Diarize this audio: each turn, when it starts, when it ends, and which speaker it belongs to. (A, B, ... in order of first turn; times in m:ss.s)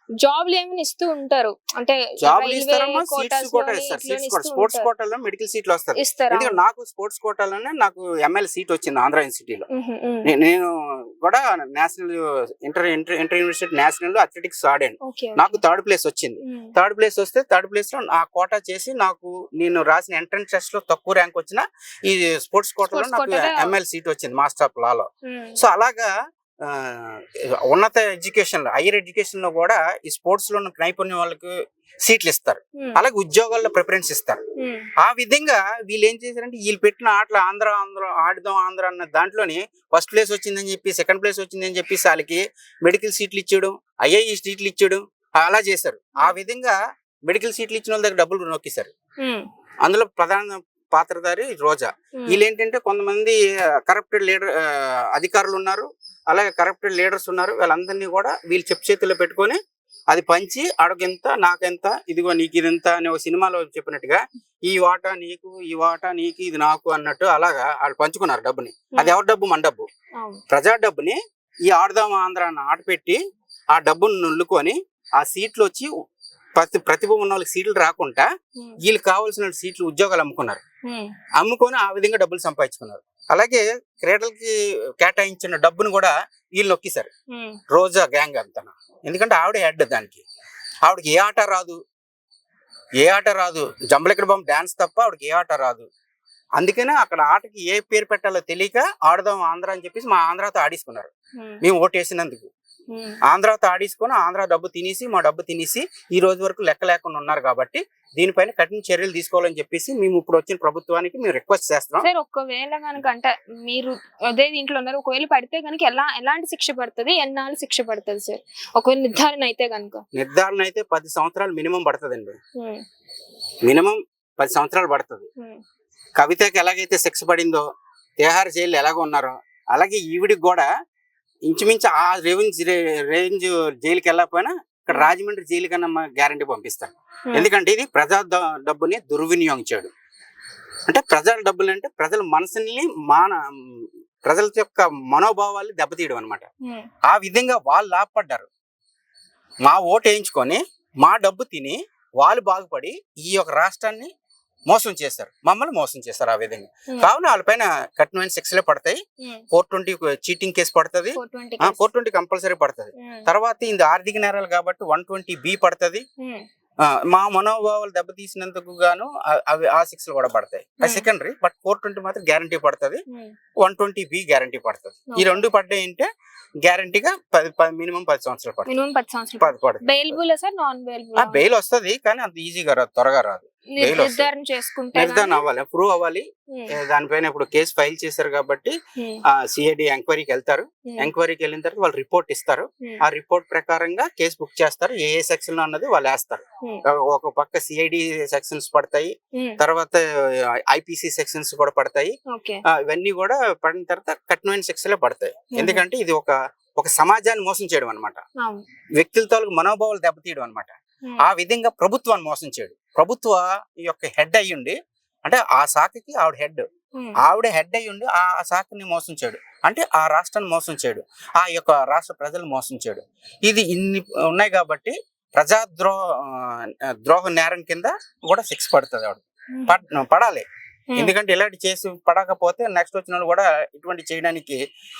0:00.2-0:04.9 A
0:02.2-0:09.7 B
0:06.0-0:06.6 A
0:09.7-0:10.3 A
0:10.2-0:26.1 B
0:15.0-0:15.6 A
0:16.4-0:16.7 A
0:22.9-0:23.7 A
0:25.2-0:25.6 A
0:26.6-0:34.4 B
0:34.6-0:34.9 A
0:35.0-0:46.8 B
0:47.3-0:48.9 B
0:49.8-0:59.6 B
1:00.1-1:09.9 B
1:10.5-1:13.2 B
1:13.7-1:15.9 B
1:16.6-1:18.3 B
1:18.8-1:20.6 B
1:20.9-1:21.1 A
1:21.4-1:27.1 B
1:27.3-1:27.6 A
1:27.7-1:30.2 B
1:30.8-1:31.8 B
1:33.0-1:35.9 B
1:36.6-1:41.1 B
1:41.4-1:41.6 A
1:41.6-1:42.5 B
1:42.9-1:43.2 A
1:43.3-1:52.1 B
1:52.0-2:00.0 A
2:00.1-2:02.4 B
2:02.6-2:02.8 A
2:03.6-2:05.3 B
2:06.2-2:07.6 B
2:08.2-2:10.7 B
2:11.5-2:19.9 B
2:20.9-2:26.5 B
2:27.1-2:28.5 B
2:29.6-2:34.1 B
2:34.7-2:39.0 B
2:39.5-2:46.0 B
2:41.2-2:41.8 A
2:43.0-2:43.3 A
2:46.2-2:46.4 A
2:46.9-2:53.0 B
2:50.8-2:51.1 A
2:53.6-2:56.1 B
2:55.1-2:55.4 A
2:56.6-2:58.7 B
2:58.7-3:01.4 A
2:59.4-3:00.2 B
3:01.2-3:04.3 B
3:03.7-3:05.4 A
3:05.0-3:08.8 B
3:09.0-3:09.2 A
3:09.3-3:20.0 B
3:19.3-3:19.6 A
3:20.7-3:22.1 B
3:22.3-3:22.6 A
3:22.7-3:28.2 B
3:25.5-3:25.8 A
3:29.0-3:36.6 B
3:37.2-3:50.4 B
3:51.0-3:54.6 B